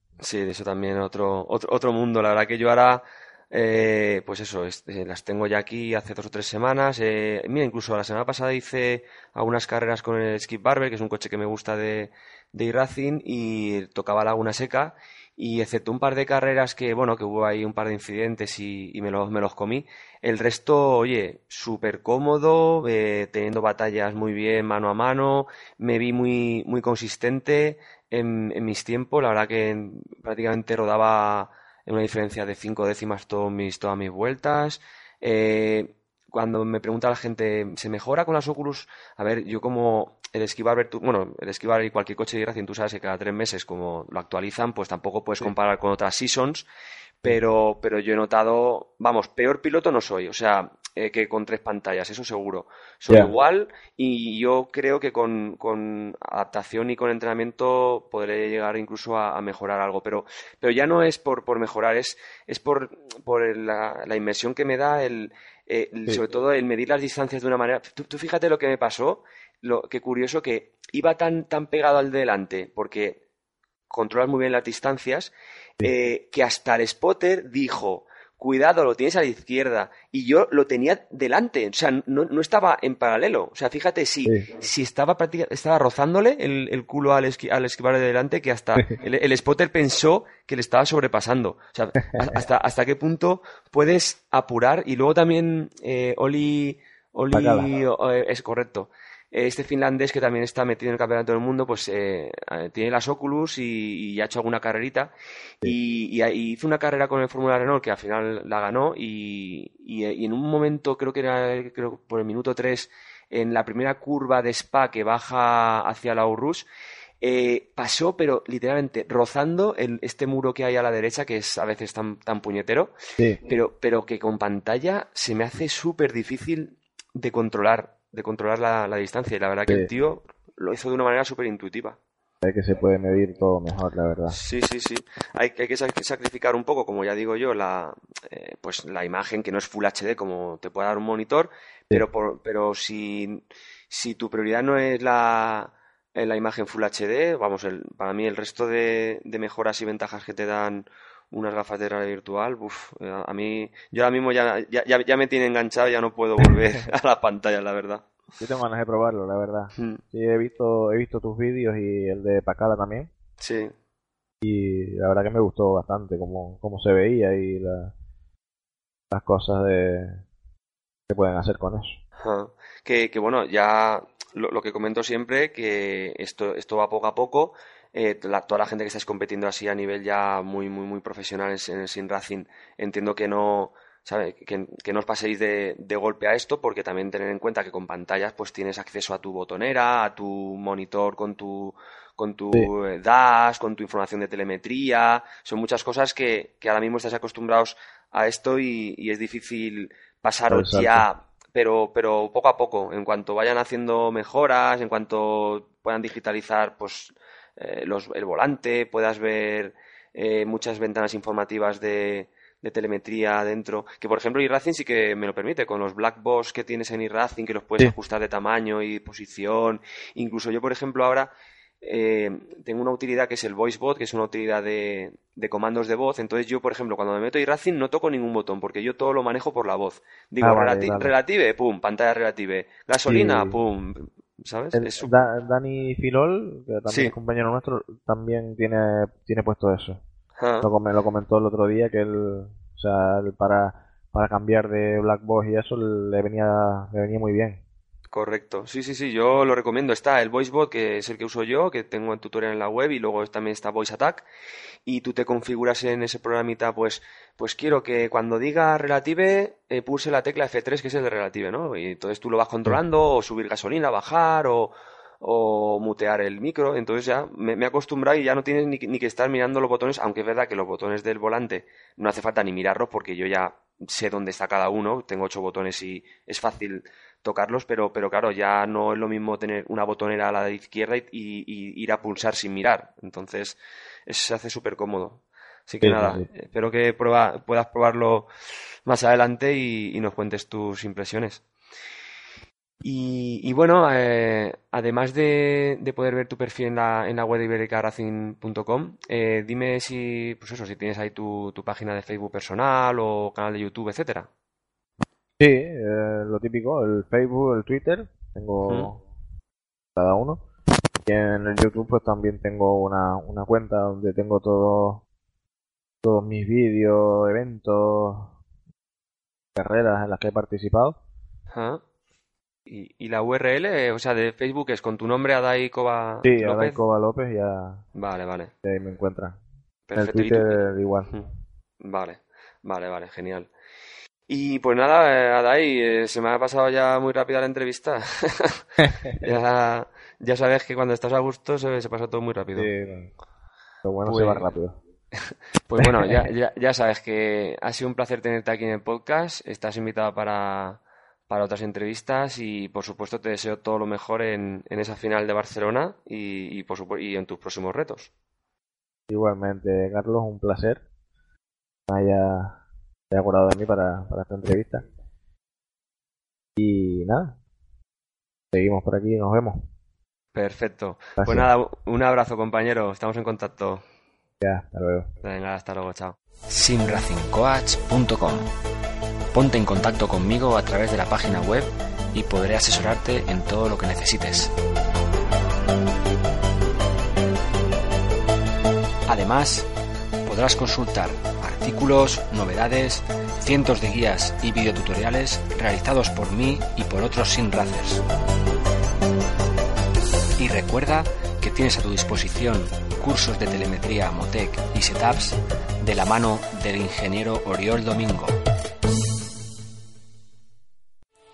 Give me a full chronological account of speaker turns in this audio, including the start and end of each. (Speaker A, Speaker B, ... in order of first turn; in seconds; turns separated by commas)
Speaker A: 0.2-46.7, Speaker A: 47.2-73.2, Speaker B: 53.1-53.3, Speaker A: 73.9-105.1, Speaker B: 92.0-92.4, Speaker B: 97.3-97.7, Speaker A: 105.6-116.7, Speaker A: 117.2-122.9, Speaker B: 123.2-123.4, Speaker A: 123.5-132.0, Speaker B: 132.4-134.4, Speaker A: 134.3-158.1, Speaker B: 158.4-163.1, Speaker A: 163.4-163.7, Speaker B: 164.4-167.9, Speaker B: 169.1-170.2, Speaker B: 171.1-172.0, Speaker A: 172.2-221.3, Speaker B: 200.5-201.1, Speaker A: 221.8-235.2, Speaker B: 230.4-231.1, Speaker B: 233.1-233.6, Speaker B: 234.7-240.0, Speaker A: 240.4-240.7, Speaker B: 240.6-247.6, Speaker A: 248.1-254.2, Speaker A: 254.9-288.3, Speaker B: 285.8-286.3, Speaker A: 288.9-291.4, Speaker A: 292.8-304.3, Speaker B: 305.4-309.0, Speaker B: 310.0-310.4, Speaker B: 311.1-315.0, Speaker B: 316.0-318.4, Speaker B: 319.6-321.0, Speaker A: 321.5-321.8, Speaker A: 322.7-326.8, Speaker B: 326.2-327.9, Speaker A: 327.9-328.5, Speaker B: 328.6-329.4, Speaker A: 329.9-331.2, Speaker B: 330.0-331.2, Speaker A: 331.8-333.5, Speaker A: 334.3-342.7, Speaker B: 338.9-339.2, Speaker B: 342.6-343.1, Speaker B: 343.8-344.8, Speaker A: 344.1-344.4, Speaker A: 345.1-358.1, Speaker B: 345.8-346.3, Speaker B: 359.1-360.8, Speaker B: 361.9-362.6, Speaker B: 363.1-364.9, Speaker B: 366.6-367.4, Speaker B: 368.5-369.7, Speaker A: 370.3-373.8, Speaker B: 371.2-371.5, Speaker B: 374.4-375.1, Speaker A: 375.2-376.2, Speaker C: 376.5-378.5, Speaker C: 379.3-384.5, Speaker C: 389.1-389.7, Speaker C: 390.2-398.0, Speaker C: 400.4-408.4